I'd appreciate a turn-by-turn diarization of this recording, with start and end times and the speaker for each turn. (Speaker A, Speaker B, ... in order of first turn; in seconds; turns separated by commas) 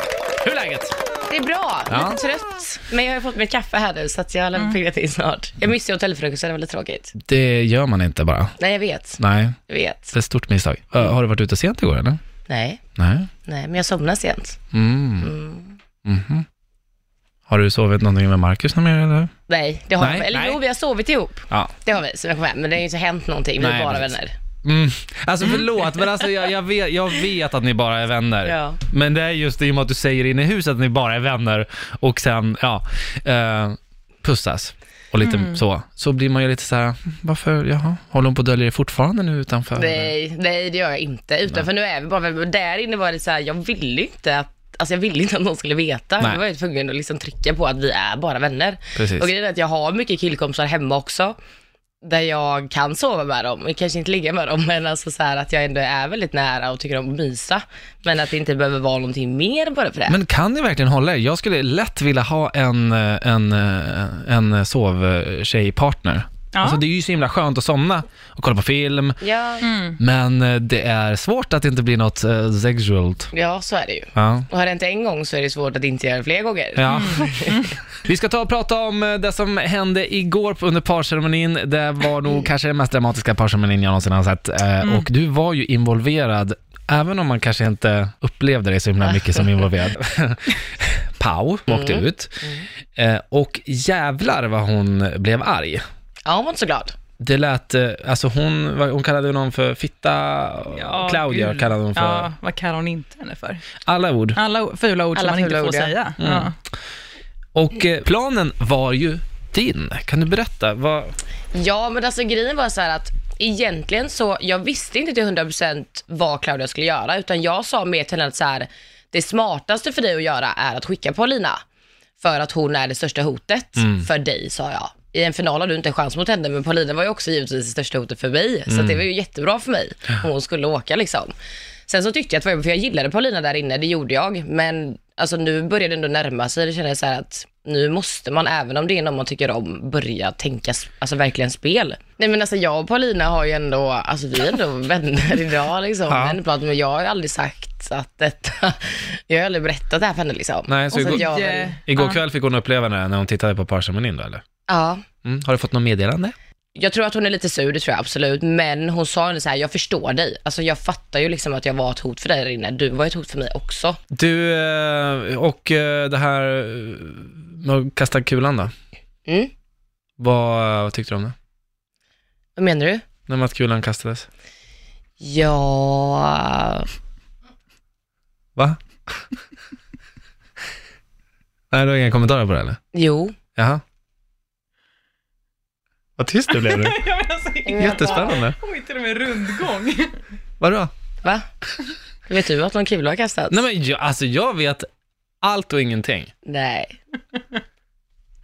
Speaker A: 0.4-0.9, Speaker B: 1.3-7.1, Speaker A: 1.9-2.2, Speaker A: 7.2-8.6, Speaker B: 8.6-10.2, Speaker A: 9.2-9.6, Speaker A: 10.1-12.2, Speaker B: 12.5-12.8, Speaker A: 13.0-13.3, Speaker B: 13.4-14.6, Speaker A: 14.7-15.3, Speaker B: 15.2-15.8, Speaker A: 16.1-16.5, Speaker A: 17.5-19.3, Speaker B: 19.5-24.3, Speaker A: 20.0-20.6, Speaker A: 23.6-40.1, Speaker B: 28.4-28.8, Speaker B: 39.8-51.4, Speaker A: 49.0-49.3, Speaker B: 52.0-60.2, Speaker A: 60.1-69.2, Speaker C: 66.5-66.8, Speaker B: 69.2-69.7, Speaker C: 69.6-70.0, Speaker A: 70.0-73.3, Speaker B: 73.3-77.7, Speaker A: 74.2-74.5, Speaker A: 76.8-95.8, Speaker C: 76.9-77.7, Speaker B: 91.7-92.7, Speaker B: 96.2-97.0, Speaker A: 97.2-102.3, Speaker C: 100.7-103.6, Speaker A: 103.8-104.4, Speaker C: 104.3-106.5, Speaker B: 105.2-105.9, Speaker A: 106.2-106.5, Speaker A: 107.5-111.2, Speaker B: 111.5-121.6, Speaker B: 122.2-131.3, Speaker A: 123.8-124.1, Speaker A: 128.7-129.0, Speaker B: 131.9-151.8, Speaker A: 146.1-146.4, Speaker A: 150.7-151.3, Speaker C: 150.9-152.2, Speaker A: 151.8-154.4, Speaker B: 154.7-155.0, Speaker A: 155.2-156.3, Speaker B: 156.8-164.0, Speaker A: 164.1-168.7, Speaker A: 170.2-171.3, Speaker B: 172.6-173.1, Speaker A: 173.3-174.3, Speaker B: 175.2-176.9, Speaker A: 178.6-179.2, Speaker A: 181.7-182.8, Speaker B: 182.9-183.4, Speaker A: 183.6-183.8, Speaker A: 186.2-187.0, Speaker C: 186.5-190.2, Speaker B: 187.7-188.4, Speaker A: 187.8-188.6, Speaker A: 190.6-190.9, Speaker B: 192.3-193.6, Speaker A: 193.5-194.9, Speaker A: 195.4-196.3, Speaker B: 196.4-196.9